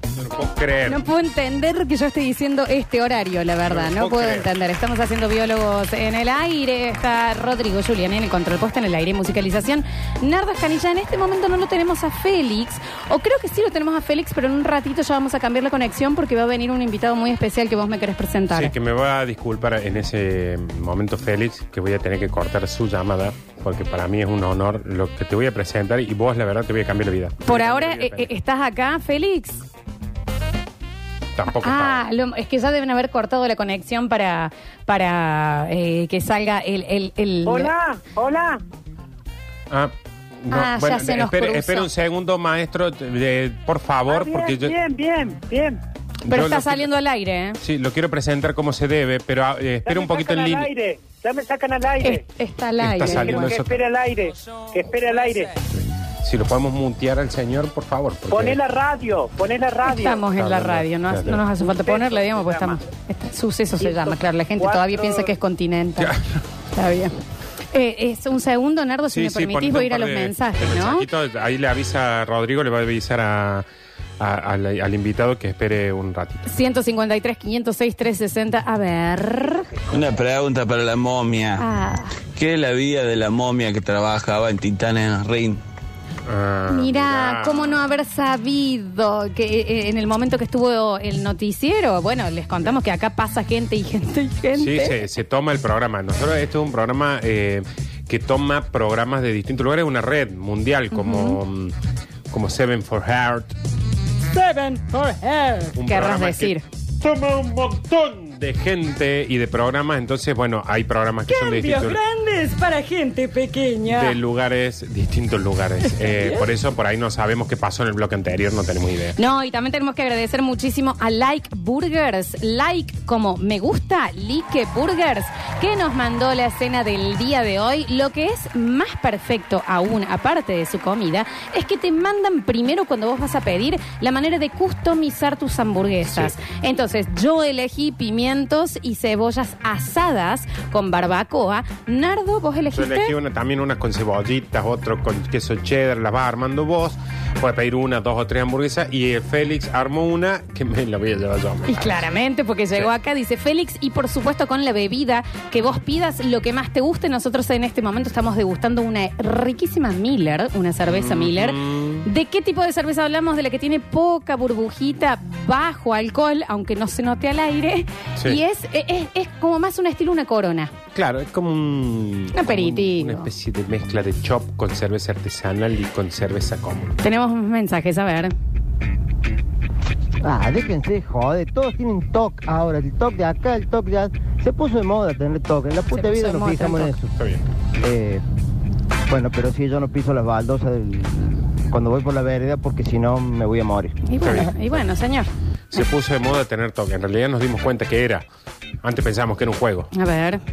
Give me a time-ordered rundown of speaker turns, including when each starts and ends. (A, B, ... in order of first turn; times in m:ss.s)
0:00.1-0:01.0 A
0:00.8-0:18.7 B
0:03.6-0:04.5 A
0:18.5-0:28.3 A
0:27.4-0:29.7 B
0:31.3-0:32.0 A
0:31.5-0:37.7 B
0:37.4-0:38.6 C
0:39.7-0:44.8 A
0:40.5-0:41.9 B
0:44.1-0:45.8 C
0:46.2-0:46.9 A
0:46.3-0:47.6 B
0:47.6-0:50.7 A
0:49.8-0:52.2 C
0:52.0-0:53.5 B
0:52.8-0:53.8 A
0:53.1-0:55.5 C
0:55.7-0:58.6 A
0:58.3-1:00.2 C
0:59.8-1:06.1 B
1:00.4-1:01.4 A
1:01.6-1:02.8 C
1:03.8-1:05.3 C
1:06.0-1:06.4 A
1:06.7-1:07.1 B
1:07.7-1:11.1 B
1:09.1-1:13.6 A
1:14.2-1:16.5 A
1:16.4-1:19.7 B
1:19.9-1:21.6 D
1:21.6-1:22.2 B
1:22.3-1:25.6 D
1:26.2-1:27.8 A
1:26.7-1:35.0 B
1:34.5-1:41.8 A
1:40.9-1:41.4 B
1:42.3-1:43.6 A
1:44.3-1:46.6 B
1:45.7-1:52.0 A
1:51.3-1:54.2 B
1:53.8-1:59.2 A
1:55.9-1:56.5 B
1:59.2-2:23.1 B
2:16.0-2:16.3 A
2:22.7-2:32.1 A
2:31.7-2:50.7 B
2:40.8-2:42.0 A
2:50.9-2:57.0 A
2:52.3-2:53.3 B
2:57.0-2:58.3 B
3:00.2-3:07.2 E
3:05.9-3:07.0 B
3:07.8-3:08.2 E
3:09.1-3:14.0 E
3:14.0-3:15.8 B
3:14.2-3:14.8 A
3:15.7-3:18.3 A
3:18.8-3:19.9 A
3:19.9-3:20.4 B